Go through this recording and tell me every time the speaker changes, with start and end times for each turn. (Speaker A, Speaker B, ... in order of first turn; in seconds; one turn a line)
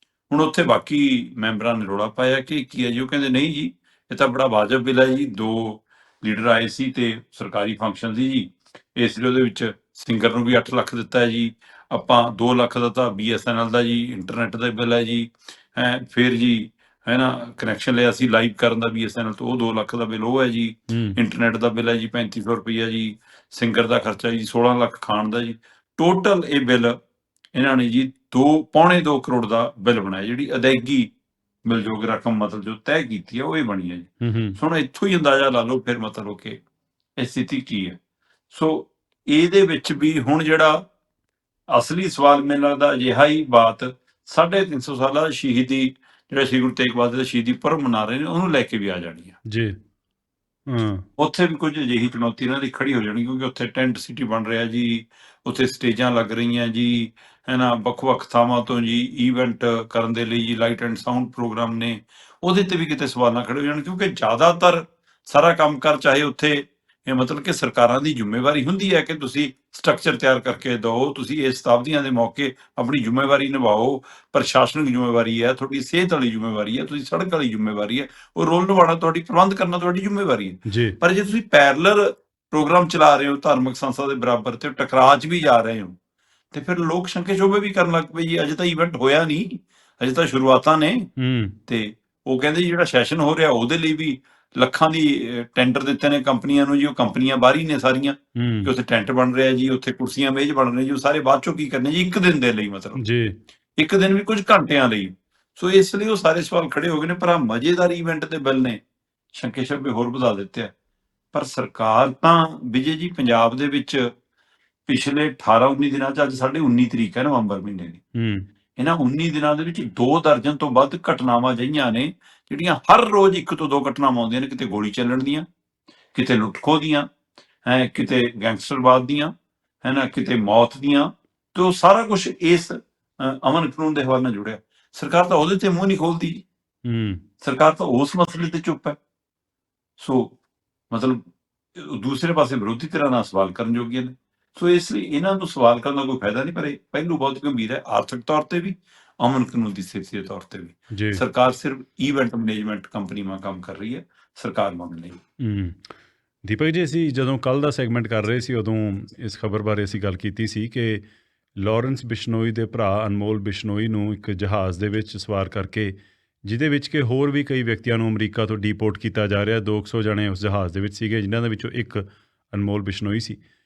Speaker A: 0.3-27.0
Speaker B: 20.9-21.2
Speaker A: 27.5-31.1
Speaker A: 31.6-36.6
Speaker B: 34.2-34.6
Speaker A: 37.2-38.0
Speaker A: 38.5-40.8
Speaker A: 41.7-49.4
Speaker B: 49.5-49.8
Speaker B: 50.7-51.0
Speaker A: 51.2-86.0
Speaker B: 80.7-81.0
Speaker A: 86.5-91.1
Speaker B: 91.2-91.5
Speaker A: 91.7-103.0
Speaker B: 98.4-98.7
Speaker B: 103.0-103.3
Speaker A: 103.8-108.8
Speaker A: 109.3-110.7
Speaker A: 111.3-114.1
Speaker A: 114.9-118.0
Speaker B: 118.2-118.5
Speaker A: 118.8-125.5
Speaker A: 126.1-127.1
Speaker A: 127.6-129.3
Speaker A: 129.8-136.4
Speaker B: 136.9-137.2
Speaker A: 137.4-139.0
Speaker A: 140.0-140.4
Speaker A: 140.9-141.2
Speaker A: 141.7-155.2
Speaker B: 150.9-151.2
Speaker B: 155.4-155.8
Speaker B: 156.4-161.1
Speaker B: 161.6-173.4